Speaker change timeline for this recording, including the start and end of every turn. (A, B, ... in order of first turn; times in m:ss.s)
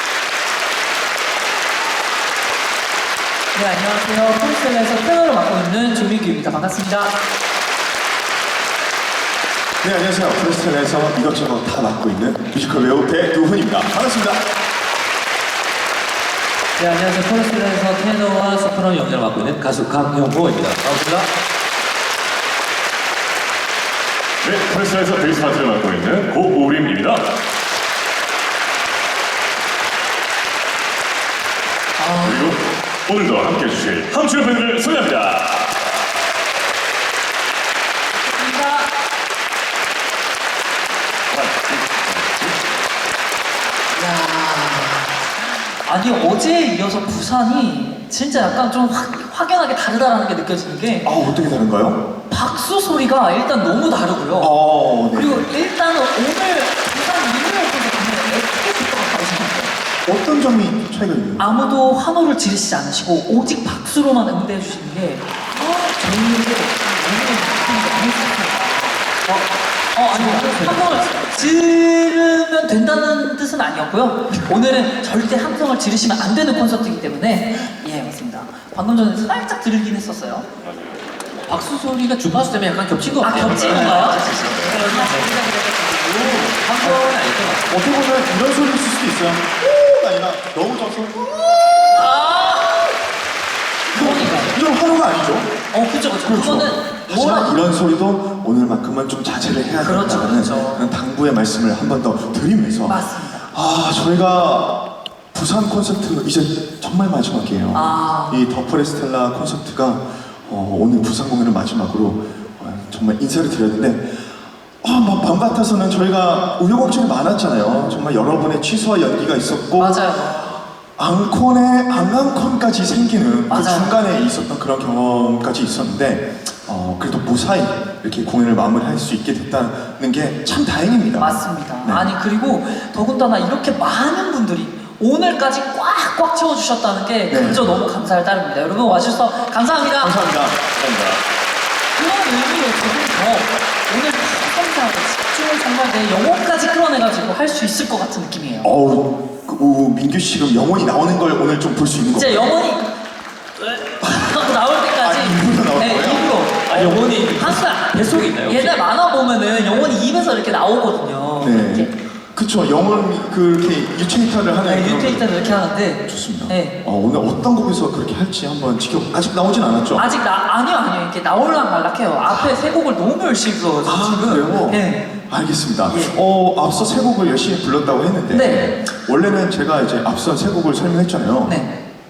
0:03.5-0:07.2 A
0:09.8-0:14.4 B
0:16.8-0:21.3 C
0:24.4-0:27.3 D
0:32.0-0:32.7 A
0:32.2-0:35.8 D
0:38.2-0:38.9 A
0:41.3-0:42.6 D
0:43.9-0:51.1 A
0:51.0-0:52.0 B
0:52.3-0:59.7 A
0:54.4-0:55.5 B
1:00.1-1:01.4 B
1:01.4-1:20.4 A
1:10.1-1:11.4 C
1:20.6-1:21.0 D
1:21.5-1:27.9 C
1:23.2-1:26.5 A
1:23.6-1:24.8 D
1:27.7-1:32.1 B
1:32.0-1:32.9 A
1:33.9-1:35.5 B
1:34.0-1:34.5 A
1:35.7-1:37.5 A
1:36.2-1:44.8 B
1:39.8-1:40.9 A
1:42.8-1:43.4 A
1:45.3-1:54.3 B
1:47.7-1:48.4 A
1:54.8-2:12.1 B
1:59.8-2:00.6 A
2:03.5-2:04.0 A
2:11.2-2:20.2 A
2:17.3-2:17.7 B
2:20.0-2:21.2 B
2:22.0-2:28.7 A
2:28.6-2:32.5 B
2:32.1-2:32.9 A
2:33.6-2:37.9 A
2:34.0-2:34.4 B
2:35.0-2:36.4 B
2:36.7-2:38.7 C
2:38.4-2:41.9 A
2:41.4-2:45.4 B
2:44.6-2:46.8 A
2:46.1-2:50.1 B
2:50.0-2:55.1 A
2:53.8-3:01.6 B
2:55.9-2:56.2 A
2:58.3-2:58.8 A
3:01.4-3:01.7 A